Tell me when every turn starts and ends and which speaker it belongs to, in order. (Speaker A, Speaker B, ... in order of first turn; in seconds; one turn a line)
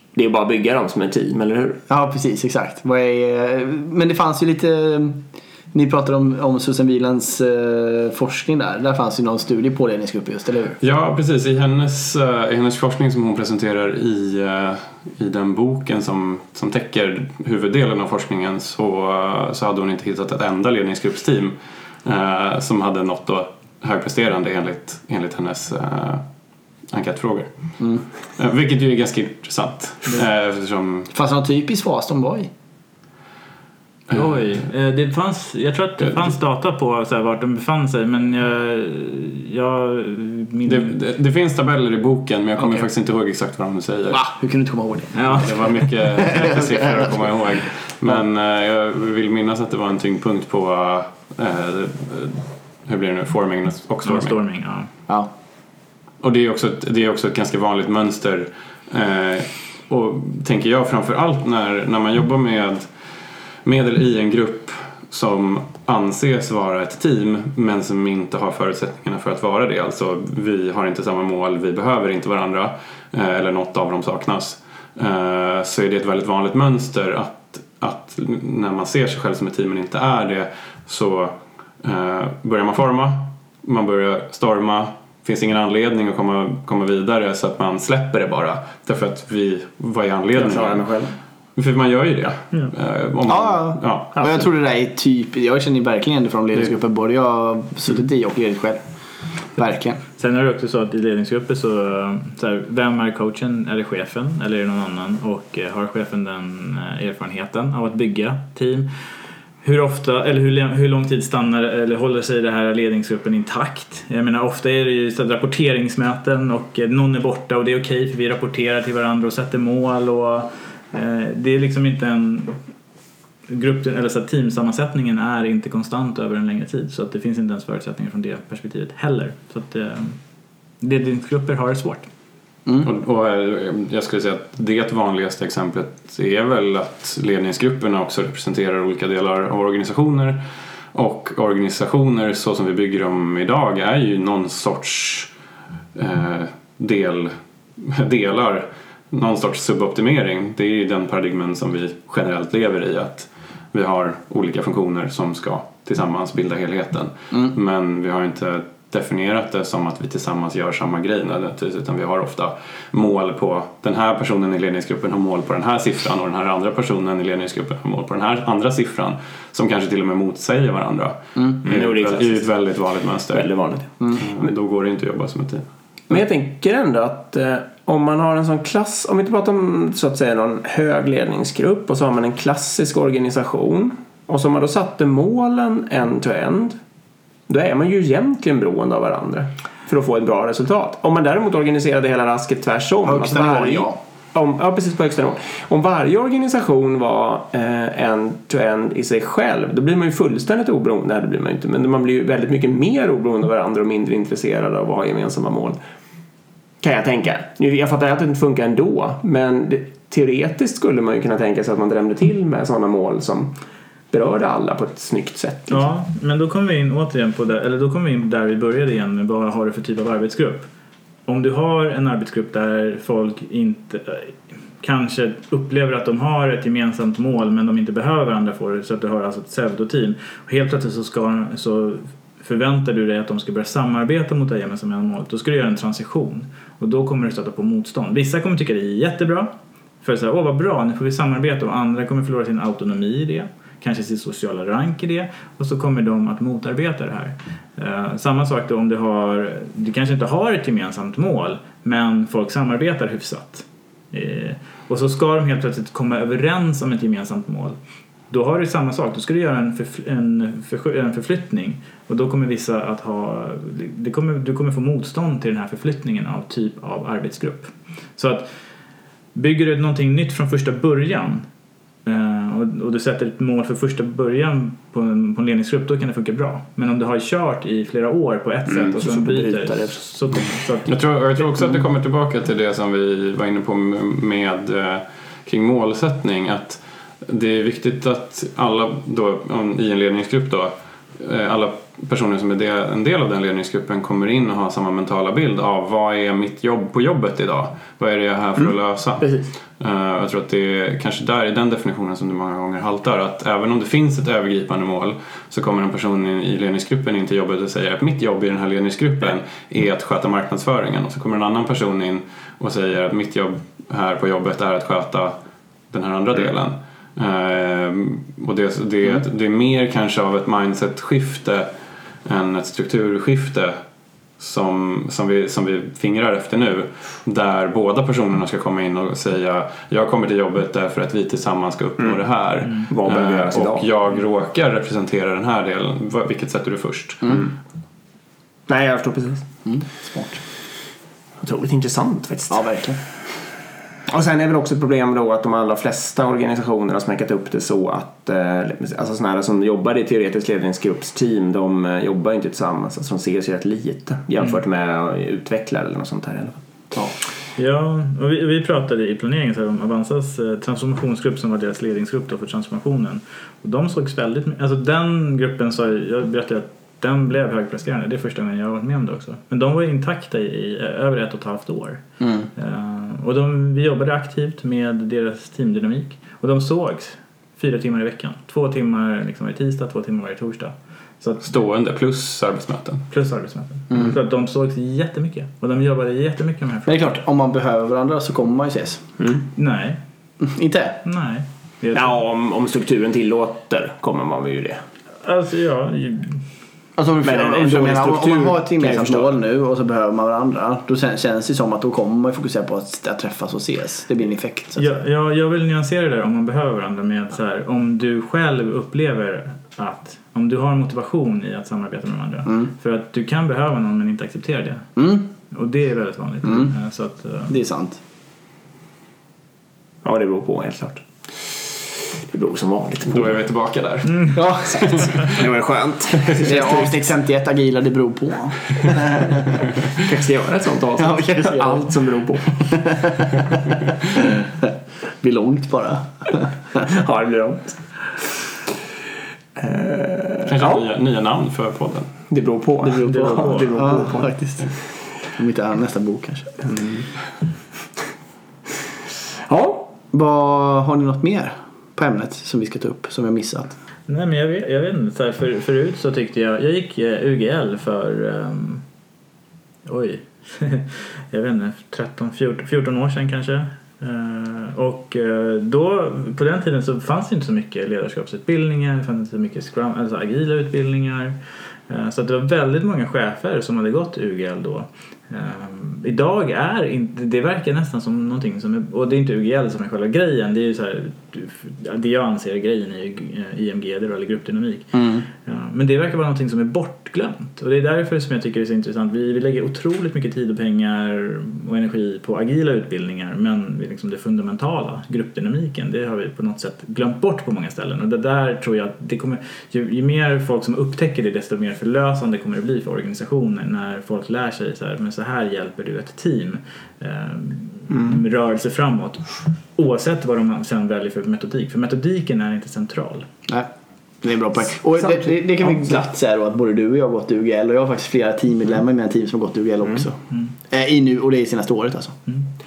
Speaker A: 0.1-1.8
Speaker B: 1.9-10.8
Speaker C: 10.8-21.5
Speaker C: 22.1-26.2
Speaker C: 26.9-27.8
Speaker C: 28.4-31.1
Speaker B: 31.1-32.5
Speaker D: 34.1-41.0
Speaker C: 34.1-34.5
Speaker C: 40.7-44.2
Speaker B: 44.1-47.1
Speaker D: 45.1-45.5
Speaker C: 45.3-54.4
Speaker D: 54.0-54.9
Speaker C: 56.2-62.9
Speaker C: 63.6-90.9
Speaker A: 90.3-91.1
Speaker C: 91.6-94.2
Speaker B: 93.3-98.8
Speaker B: 99.6-100.0
Speaker D: 100.2-108.9
Speaker D: 109.6-122.6
Speaker D: 123.5-130.2
Speaker D: 130.8-132.1
Speaker C: 132.8-140.4
Speaker C: 140.9-145.3
Speaker C: 145.9-175.7
Speaker A: 171.6-172.5
Speaker A: 173.3-174.5
Speaker A: 176.1-186.8
Speaker A: 187.5-205.8
Speaker B: 193.1-194.0
Speaker A: 206.8-213.6
Speaker A: 214.1-215.8
Speaker D: 215.7-220.7
Speaker D: 221.3-257.8
Speaker D: 258.3-268.6
Speaker D: 269.4-271.5
Speaker D: 272.1-280.9
Speaker A: 278.7-280.0
Speaker C: 280.9-315.4
Speaker A: 299.2-299.5
Speaker C: 315.9-321.7
Speaker C: 322.3-323.8
Speaker C: 324.4-337.4
Speaker A: 332.9-333.8
Speaker A: 338.7-339.5
Speaker B: 339.6-340.4
Speaker A: 341.4-342.6
Speaker B: 342.5-343.0
Speaker A: 344.1-356.6
Speaker D: 357.6-372.0
Speaker B: 372.2-372.5
Speaker D: 372.6-381.5
Speaker C: 381.4-383.1
Speaker D: 383.1-387.0
Speaker B: 383.9-384.2
Speaker B: 386.9-389.1
Speaker D: 389.6-390.0
Speaker B: 390.4-391.0
Speaker D: 391.1-392.2
Speaker A: 391.9-394.8
Speaker D: 395.2-396.4
Speaker B: 397.0-405.0
Speaker A: 397.2-399.4
Speaker D: 404.8-414.9
Speaker B: 415.0-415.3
Speaker D: 415.5-417.6
Speaker B: 416.4-416.7
Speaker B: 417.5-418.0
Speaker A: 420.0-423.4
Speaker C: 423.1-425.4
Speaker B: 424.3-425.1
Speaker A: 424.9-427.0
Speaker B: 426.4-429.7
Speaker A: 429.9-432.7
Speaker B: 431.0-432.0
Speaker B: 432.5-433.6
Speaker B: 434.1-436.9
Speaker A: 436.8-438.2
Speaker A: 439.6-440.8
Speaker C: 440.5-442.1
Speaker A: 442.3-444.3
Speaker B: 442.9-444.7
Speaker D: 443.0-443.7
Speaker B: 445.3-446.6
Speaker A: 446.6-447.1
Speaker A: 449.4-449.9
Speaker B: 450.1-453.8
Speaker D: 454.1-458.9
Speaker D: 459.9-513.3
Speaker B: 484.9-485.2
Speaker B: 514.2-522.1
Speaker A: 515.0-516.0